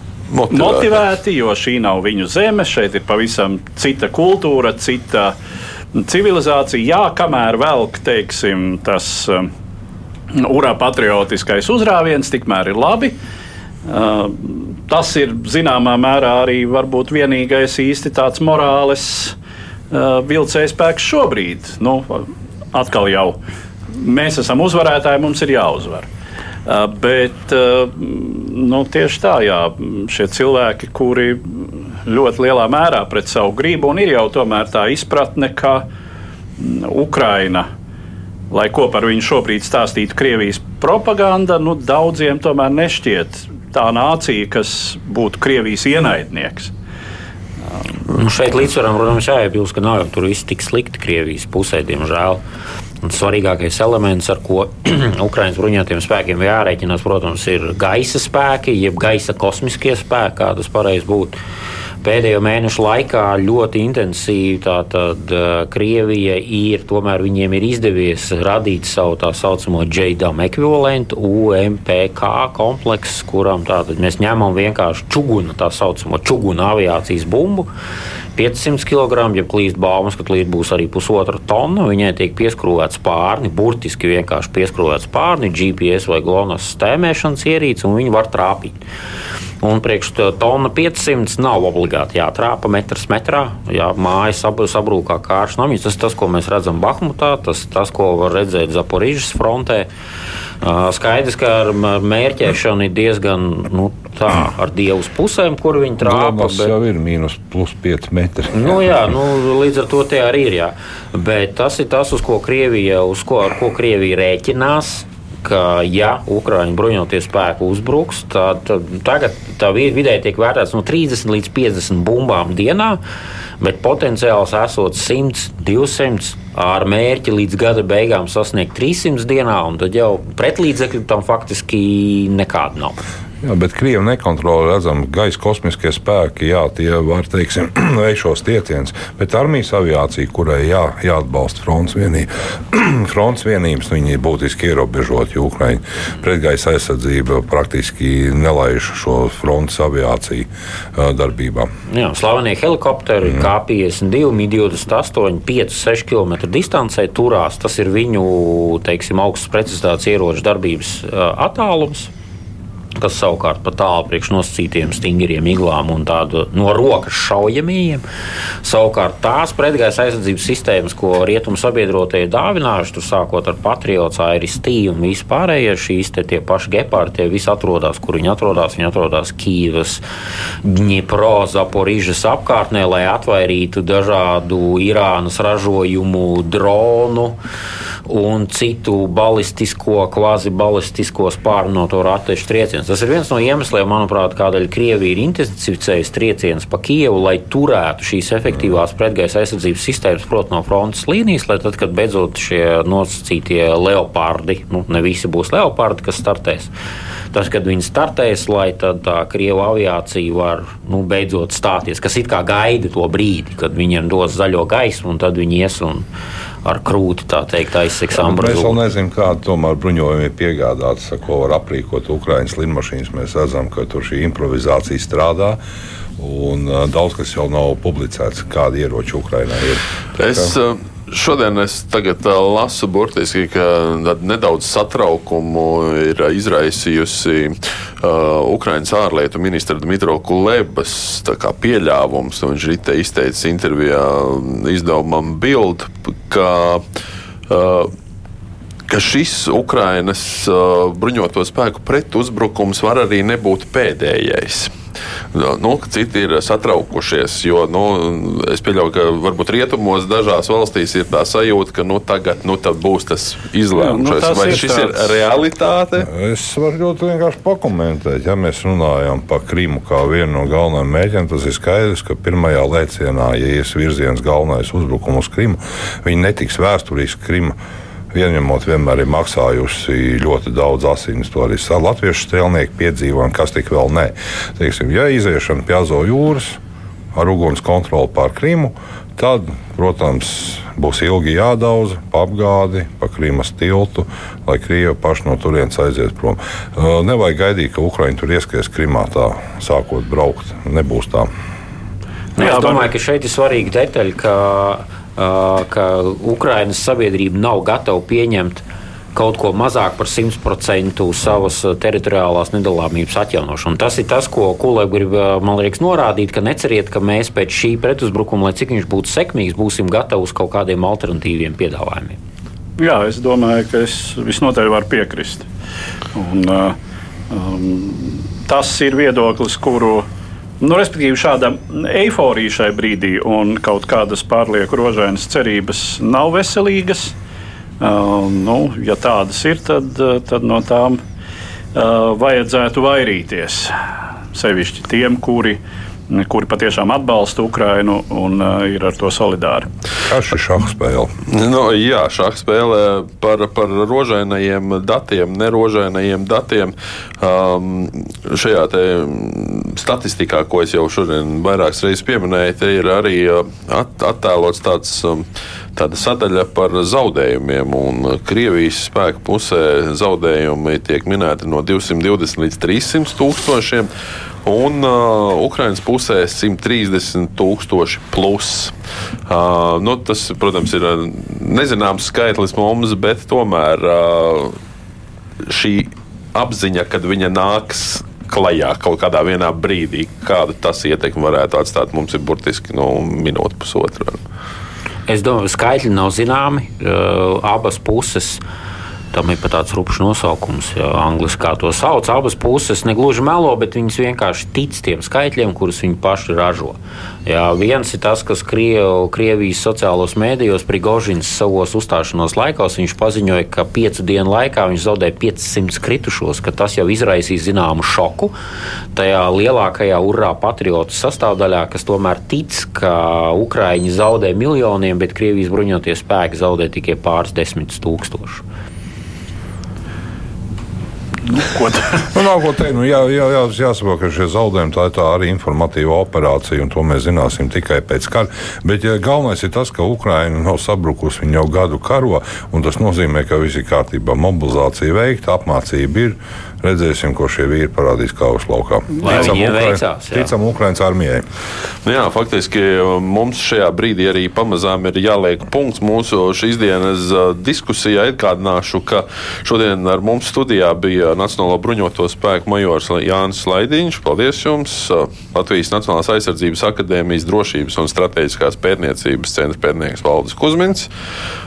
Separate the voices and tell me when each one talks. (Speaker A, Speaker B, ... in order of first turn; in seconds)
Speaker A: 0.3-1.0, 230.2-246.8, 247.5-247.9, 248.9-254.7, 255.3-266.1, 351.3-365.2, 365.8-373.9, 374.4-378.7, 379.3-384.6, 385.4-394.2, 451.8-470.9
Speaker B: 0.5-5.3, 5.9-9.5, 10.3-13.2, 13.9-19.3, 19.9-23.4, 24.0-26.1, 26.6-31.4, 32.0-35.9, 36.6-37.7, 38.5-46.7, 263.7-265.3, 302.4-302.9, 322.8-325.5, 326.1-326.8, 327.3-330.1, 330.6-337.1, 337.8-341.0, 341.7-343.7, 344.3-345.6, 346.1-349.7, 431.3-432.1
Speaker C: 48.1-52.4, 53.0-61.4, 62.0-77.7, 78.3-88.8, 89.6-99.9, 100.6-106.7, 108.5-123.0, 123.6-132.9, 151.9-162.1, 163.0-168.0, 168.6-180.0, 180.6-187.4, 188.1-206.7, 207.3-216.0, 216.6-218.8, 302.4-322.2, 395.1-398.4, 399.1-418.3, 418.9-428.4, 449.0-450.3
Speaker D: 106.0-108.7, 133.4-151.7, 218.1-225.6, 226.2-230.5, 266.0-277.6, 278.1-286.6, 287.1-301.3, 350.1-351.1, 432.1-451.2